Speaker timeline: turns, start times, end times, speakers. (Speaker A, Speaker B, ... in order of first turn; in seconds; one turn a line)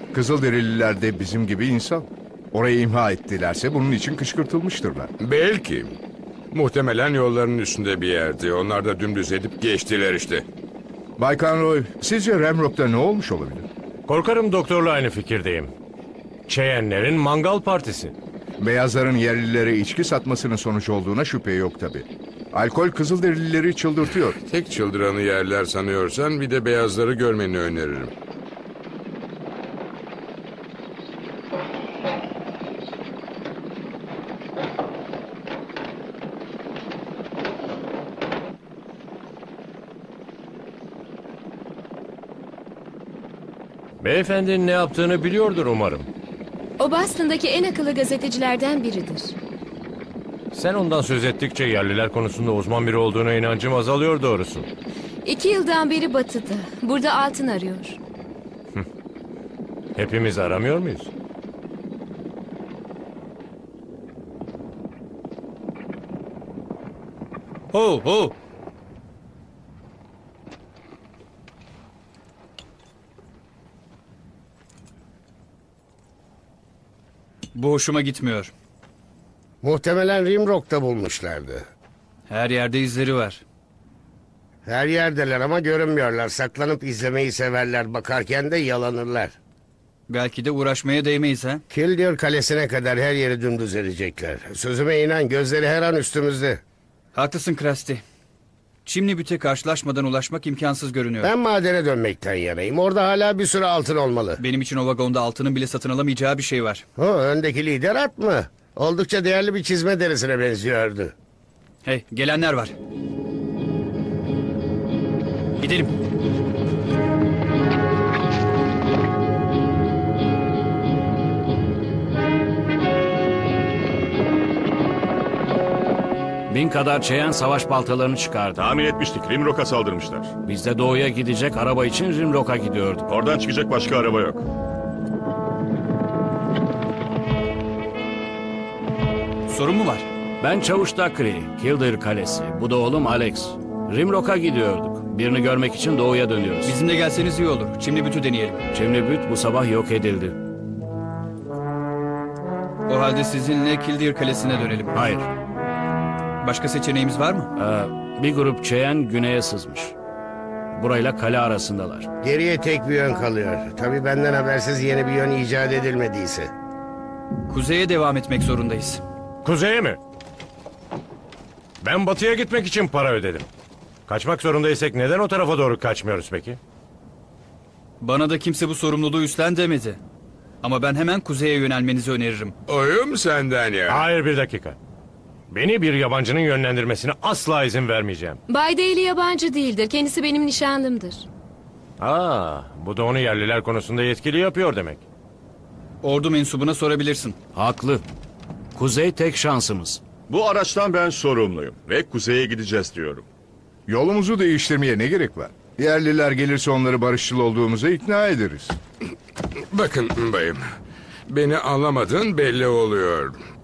Speaker A: 0.1-5.1
Speaker B: 5.2-6.0
Speaker B: 6.5-10.4
Speaker A: 11.2-13.7
Speaker C: 14.1-15.7
Speaker C: 16.5-18.1
Speaker A: 18.6-24.4
Speaker B: 24.4-28.1
Speaker C: 44.0-46.1
Speaker D: 46.8-49.4
Speaker C: 50.5-54.7
Speaker D: 55.2-58.0
Speaker C: 60.0-61.1
Speaker E: 67.7-68.3
Speaker E: 77.5-78.5
Speaker F: 79.6-81.7
Speaker E: 82.3-83.4
Speaker F: 84.6-89.3
Speaker E: 90.1-91.6
Speaker F: 91.7-96.6
Speaker E: 97.1-98.0
Speaker E: 98.8-101.3
Speaker F: 101.2-104.4
Speaker E: 104.4-106.8
Speaker F: 107.0-111.1
Speaker E: 111.8-112.8
Speaker E: 115.6-115.9
Speaker G: 126.5-128.6
Speaker H: 128.6-130.3
Speaker G: 130.4-133.0
Speaker H: 133.1-134.4
Speaker E: 139.5-140.1
Speaker G: 140.4-146.7
Speaker E: 146.6-148.7
Speaker G: 148.7-150.4
Speaker E: 152.9-154.9
Speaker G: 154.9-155.3
Speaker E: 156.4-157.5
Speaker G: 157.6-159.9
Speaker G: 160.7-162.1
Speaker F: 162.2-166.5
Speaker E: 167.5-169.0
Speaker C: 169.4-170.0
Speaker C: 171.8-173.5
Speaker C: 174.1-176.6
Speaker E: 178.0-180.0
Speaker E: 180.6-182.5
Speaker B: 182.7-184.1
Speaker C: 183.9-184.8
Speaker C: 185.5-188.4
Speaker D: 188.5-191.3
Speaker C: 192.0-195.0
Speaker E: 196.0-197.3
Speaker G: 197.5-198.0
Speaker G: 198.8-200.0
Speaker H: 200.3-203.2
Speaker A: 203.9-208.8
Speaker B: 209.7-210.6
Speaker B: 211.3-213.4